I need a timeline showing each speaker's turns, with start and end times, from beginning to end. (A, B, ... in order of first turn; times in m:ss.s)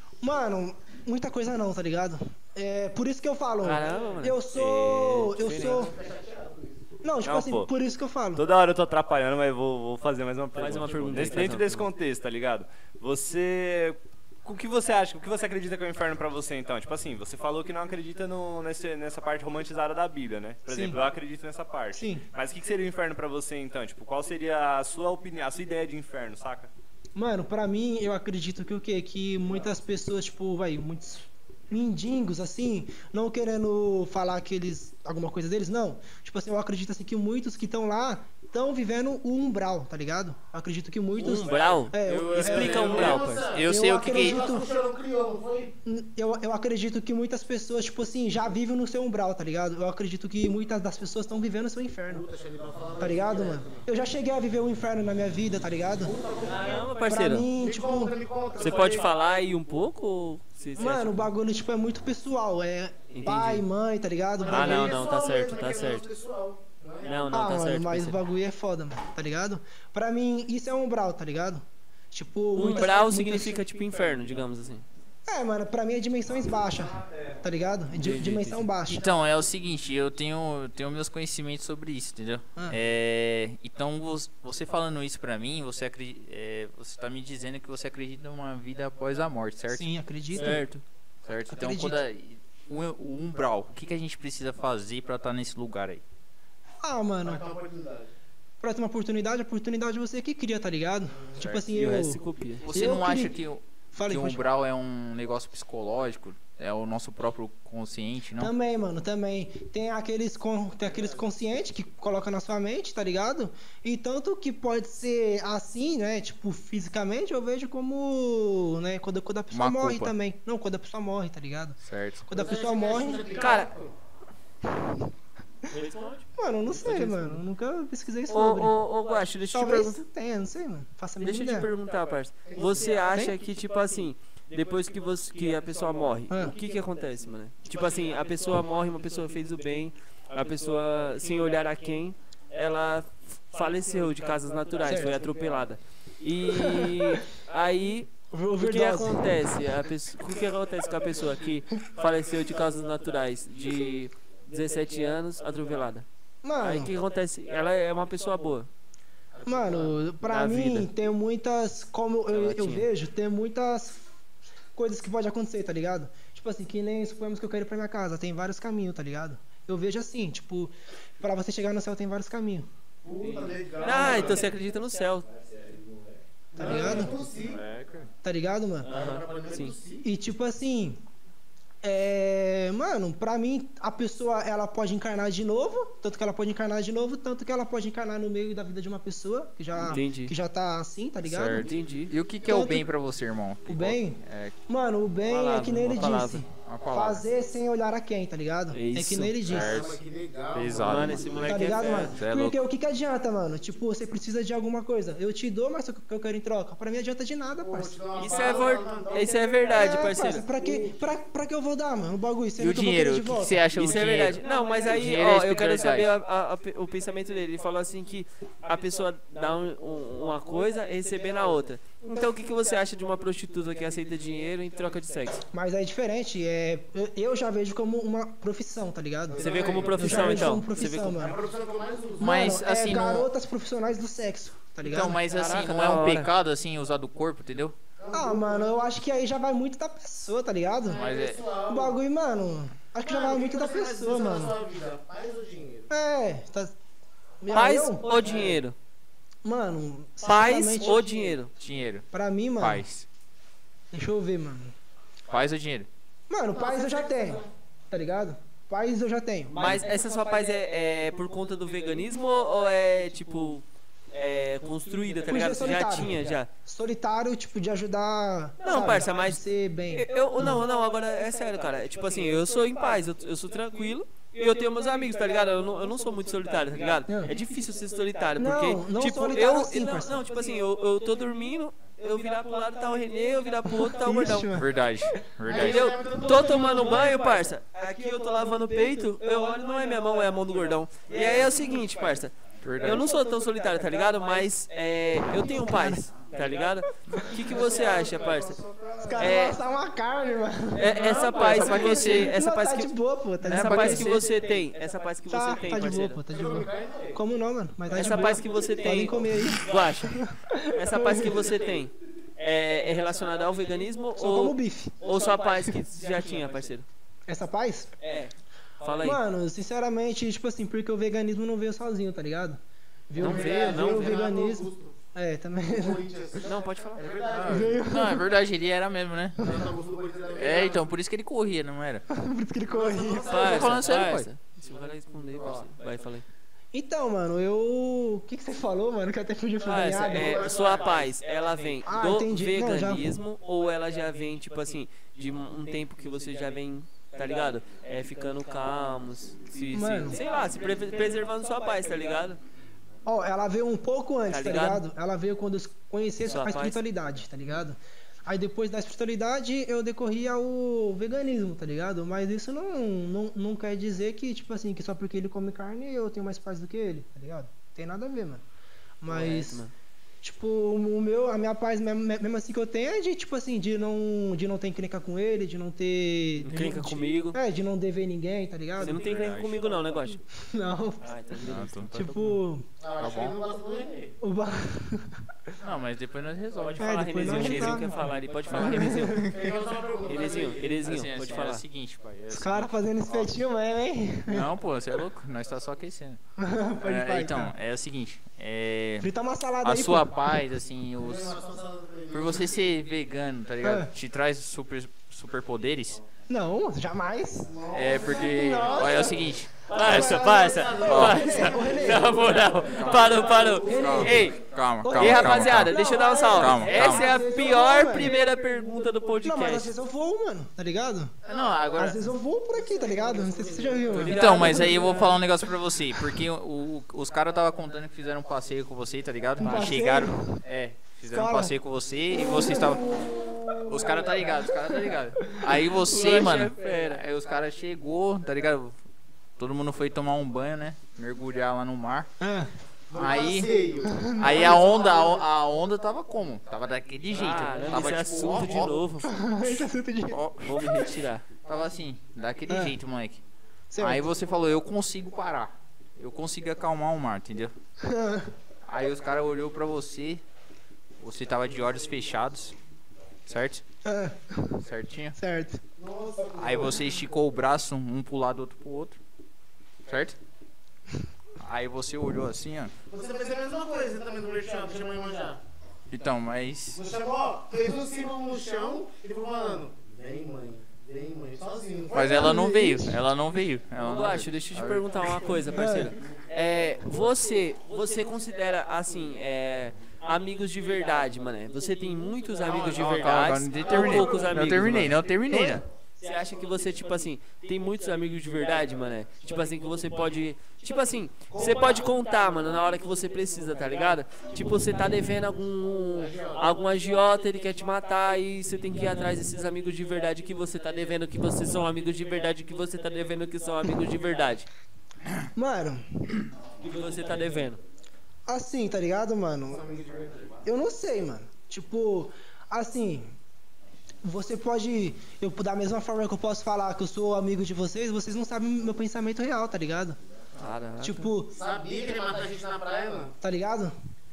0:00.2-0:05.9 A
0:03.6-0:05.8 B
0:05.5-0:06.8 C
0:07.0-0:08.4 A
0:07.2-0:07.7 D
0:08.3-0:26.7 D
0:10.5-0:11.9 B
0:20.7-0:21.0 A
0:21.9-0:22.2 A
0:27.1-0:44.7 A
0:41.2-0:43.4 B
0:42.1-0:45.7 C
0:43.5-0:44.4 E
0:45.8-0:52.2 A
0:52.1-0:53.8 C
0:53.0-0:56.1 A
0:56.0-0:59.1 C
0:56.4-0:57.5 B
0:57.0-0:58.1 A
0:58.6-1:01.3 B
1:00.8-1:05.0 A
1:03.1-1:03.6 B
1:04.4-1:07.3 C
1:04.5-1:06.1 B
1:07.0-1:08.2 B
1:07.3-1:13.6 A
1:12.5-1:14.8 B
1:15.3-1:19.1 A
1:18.0-1:18.6 B
1:18.9-1:29.9 E
1:29.7-1:30.6 A
1:30.3-1:30.8 B
1:31.2-1:36.0 E
1:31.5-1:32.0 A
1:36.8-1:37.4 A
1:37.2-1:38.1 C
1:38.6-1:43.4 A
1:41.4-1:42.6 B
1:42.6-1:48.5 E
1:43.9-1:44.4 A
1:48.4-2:03.3 A
1:59.5-2:00.1 E
2:01.8-2:02.3 E
2:02.3-2:03.9 C
2:03.3-2:03.7 B
2:04.7-2:05.1 A
2:05.7-2:07.4 B
2:06.4-2:08.8 A
2:08.3-2:10.0 B
2:09.5-2:11.7 A
2:11.2-2:36.0 B
2:12.4-2:13.1 C
2:16.3-2:16.5 A
2:24.8-2:25.2 A
2:26.4-2:27.2 A
2:28.3-2:29.4 A
2:36.4-2:36.9 A
2:36.6-2:38.7 B
2:39.3-2:40.0 C
2:39.4-2:44.0 A
2:40.2-2:40.9 B
2:42.3-2:42.9 B
2:44.7-2:52.7 A
2:53.0-2:54.5 C
2:53.2-2:55.3 B
2:56.5-2:57.6 C
2:56.6-2:57.1 A
2:57.4-2:58.1 E
2:58.2-2:58.9 A
2:58.8-2:59.7 B
2:58.9-3:00.0 C
3:00.0-3:01.0 A
3:01.8-3:11.7 A
3:09.8-3:10.3 B
3:11.2-3:14.6 E
3:11.6-3:12.1 B
3:12.4-3:12.9 A
3:13.7-3:19.8 A
3:15.3-3:16.4 B
3:16.6-3:17.2 E
3:18.7-3:19.4 B
3:19.4-3:20.0 E
3:19.4-3:21.4 C
3:20.5-3:21.4 E
3:20.8-3:22.2 B
3:21.4-3:28.0 A
3:22.1-3:22.6 E
3:27.6-3:29.9 C
3:28.2-3:30.4 B
3:29.7-3:33.7 A
3:32.6-3:36.1 E
3:33.7-3:45.4 B
3:45.5-3:51.4 A
3:49.3-3:52.3 C
3:49.4-3:51.2 B
3:52.2-3:53.3 E
3:52.2-3:55.2 A
3:54.8-3:57.7 E
3:55.3-3:56.3 B
3:58.0-3:58.8 C
3:58.1-4:01.0 A
4:00.8-4:01.9 C
4:00.9-4:01.4 E
4:01.7-4:04.6 A
4:03.0-4:05.9 C
4:05.9-4:06.7 A
4:07.4-4:08.2 A
4:07.5-4:08.7 B
4:08.2-4:08.6 C
4:09.4-4:11.0 A
4:10.2-4:11.5 B
4:11.6-4:12.0 E
4:12.1-4:12.8 A
4:12.6-4:13.0 E
4:13.9-4:14.7 A
4:15.3-4:15.9 E
4:16.3-4:19.8 A
4:19.5-4:26.5 B
4:19.6-4:19.9 E
4:25.3-4:30.6 A
4:28.6-4:44.5 B
4:37.1-4:37.4 A
4:38.4-4:40.2 A
4:43.7-4:45.2 A
4:44.5-4:45.9 E
4:45.5-4:47.2 C
4:45.5-4:58.6 B
4:52.6-4:53.1 E
4:55.4-4:56.1 A
4:57.4-4:59.4 C
4:59.0-5:04.3 A
4:59.2-4:59.6 B
5:00.7-5:02.9 B
5:01.1-5:02.3 E
5:03.4-5:06.2 B
5:03.5-5:04.2 E
5:05.3-5:11.5 A
5:06.3-5:07.2 C
5:07.9-5:16.8 B
5:14.2-5:15.8 A
5:17.3-5:17.9 A
5:18.0-5:19.2 B
5:19.0-5:26.0 A
5:23.2-5:24.3 B
5:23.2-5:25.0 C
5:25.6-5:27.8 C
5:26.4-5:27.0 B
5:27.4-5:28.2 A
5:27.8-5:29.4 E
5:29.4-5:30.8 C
5:30.3-5:32.0 E
5:32.1-5:33.5 A
5:32.7-5:33.9 C
5:33.3-5:36.2 B
5:33.4-5:34.3 E
5:36.7-5:40.4 A
5:39.6-5:52.4 B
5:39.8-5:41.1 C
5:41.8-5:43.1 A
5:49.7-5:50.2 A
5:53.0-6:08.4 A
5:54.3-5:54.8 B
5:56.2-5:56.8 B
6:09.0-6:09.6 A
6:09.1-6:09.7 B
6:10.2-6:19.1 A
6:16.4-6:17.4 B
6:18.8-6:20.2 B
6:18.9-6:19.8 E
6:20.4-6:21.0 A
6:21.0-6:22.1 B
6:21.4-6:22.3 E
6:21.9-6:22.6 A
6:22.8-6:24.1 C
6:23.0-6:23.4 E
6:24.2-6:25.3 A
6:25.6-6:27.9 E
6:26.6-6:29.3 B
6:26.8-6:29.5 A
6:29.2-6:31.4 C
6:30.1-6:31.6 B
6:30.8-6:33.3 E
6:32.3-6:34.5 A
6:34.3-6:36.2 E
6:36.4-6:37.5 A
6:36.8-6:39.1 E
6:39.0-6:40.1 A
6:39.6-6:41.4 E
6:41.0-6:42.6 C
6:42.1-6:46.0 E
6:43.6-6:43.9 A
6:46.3-6:47.5 A
6:47.5-6:49.2 C
6:47.7-6:50.2 E
6:48.1-6:49.2 A
6:49.7-6:54.4 B
6:49.7-6:52.3 A
6:49.8-6:54.1 C
6:50.8-6:51.6 E
6:52.3-6:55.8 E
6:53.6-6:58.2 A
6:54.9-6:59.7 B
6:56.3-6:57.0 E
6:59.2-7:01.2 A
7:01.2-7:01.8 C
7:01.3-7:02.0 E
7:01.7-7:05.1 A
7:02.5-7:04.3 C
7:03.9-7:05.0 B
7:04.0-7:12.9 E
7:09.4-7:10.4 A
7:11.1-7:11.5 A
7:12.1-7:15.6 A
7:13.6-7:18.8 E
7:15.8-7:17.0 B
7:19.4-7:22.1 E
7:22.2-7:22.5 A
7:22.9-7:25.2 C
7:22.9-7:28.8 E
7:23.8-7:24.7 A
7:27.1-7:29.1 B
7:29.0-7:30.2 A
7:30.1-7:33.2 E
7:30.4-7:31.2 B
7:32.5-7:32.8 A
7:33.7-7:34.1 A
7:33.8-7:37.5 E
7:37.8-7:38.3 A
7:38.6-7:40.2 E
7:41.0-7:42.5 E
7:43.2-7:43.6 E
7:43.8-7:44.6 A
7:44.6-7:45.2 E
7:45.1-7:45.6 A
7:45.8-7:47.0 C
7:46.4-7:49.0 E
7:49.9-7:50.2 E
7:51.4-7:52.7 E
7:52.9-7:55.4 C
7:55.9-7:56.8 E
7:56.7-8:02.4 C
8:01.9-8:05.4 E
8:02.0-8:03.0 A
8:03.8-8:15.0 B
8:05.5-8:05.9 A
8:12.4-8:14.3 C
8:12.7-8:15.6 E
8:15.3-8:15.6 A
8:16.0-8:34.5 B
8:21.3-8:21.9 C
8:25.9-8:26.5 C
8:35.3-8:36.2 A
8:36.6-8:37.6 B
8:38.3-8:39.6 A
8:39.5-8:40.4 C
8:40.4-8:43.2 A
8:44.0-8:50.0 A
8:50.4-8:51.1 B
8:50.8-8:51.3 A
8:51.3-8:53.1 C
8:53.2-8:53.7 A